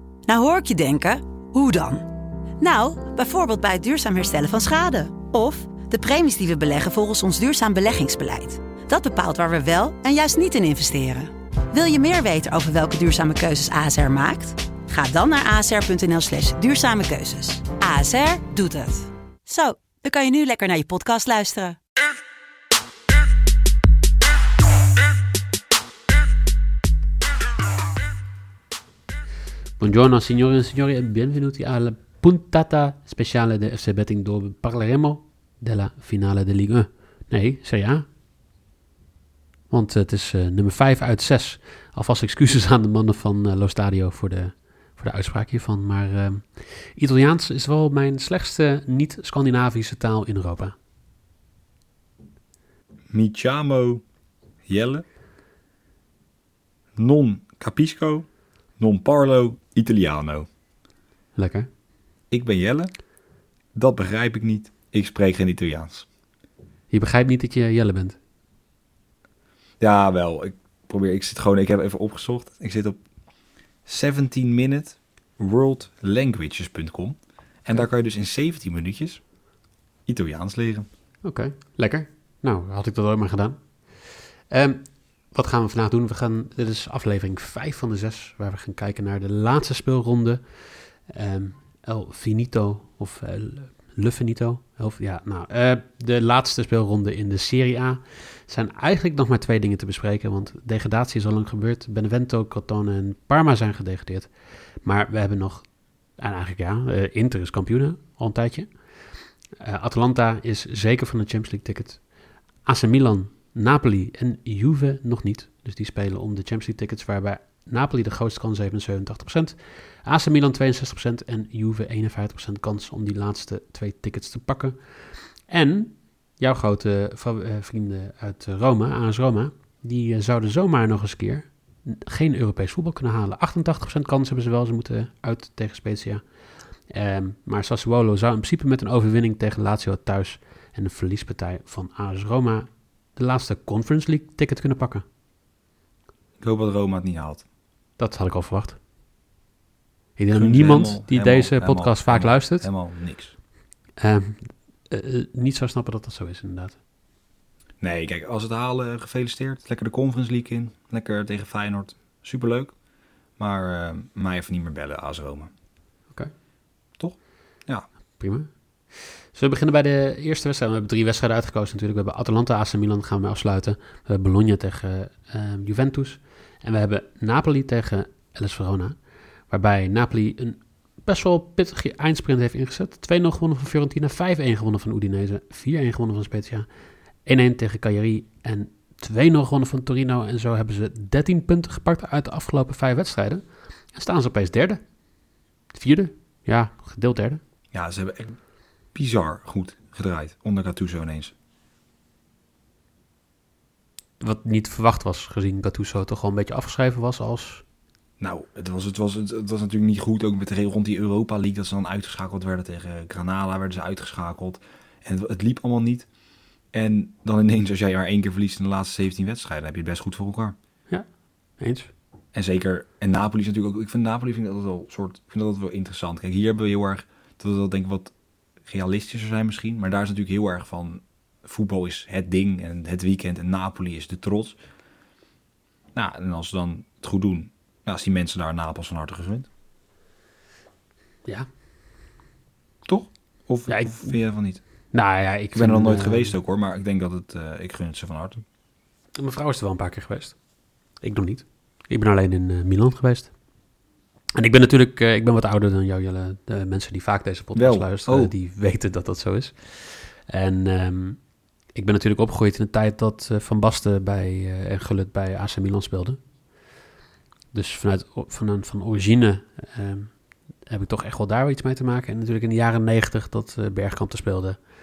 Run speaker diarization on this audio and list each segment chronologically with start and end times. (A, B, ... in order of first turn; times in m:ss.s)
0:00.3-0:02.1 A
0:02.6-0:21.8 A
0:29.8-0:38.1 B
0:39.7-0:50.7 B
0:53.1-0:54.0 C
0:54.7-0:55.0 C
0:57.0-1:00.5 C
1:01.4-1:01.7 B
1:02.3-1:03.0 C
1:03.8-1:06.1 C
1:06.9-1:08.2 B
1:09.8-1:13.0 C
1:13.9-1:19.3 C
1:20.1-1:20.9 C
1:21.2-1:49.0 B
1:49.6-1:52.1 B
1:52.6-2:16.2 B
2:16.9-2:25.0 B
2:26.4-2:27.5 C
2:28.0-2:28.8 B
2:30.2-2:32.8 B
2:30.3-2:33.3 C
2:34.0-2:36.8 B
2:37.8-2:42.8 C
2:43.4-2:45.5 C
2:47.0-2:47.9 C
2:48.2-3:06.7 B
3:07.2-3:14.8 B
3:15.7-3:17.4 B
3:17.7-3:18.4 C
3:18.9-3:21.3 C
3:24.2-3:27.6 B
3:28.2-3:36.1 C
3:36.7-3:40.6 C
3:40.9-3:41.9 B
3:42.3-3:54.6 C
3:56.0-3:59.5 C
4:02.9-4:04.6 C
4:03.7-4:04.2 B
4:04.9-4:06.4 B
4:05.5-4:08.4 C
4:09.2-4:10.4 B
4:10.9-4:13.3 B
4:14.4-4:26.2 B
4:17.6-4:18.3 C
4:27.5-4:34.6 B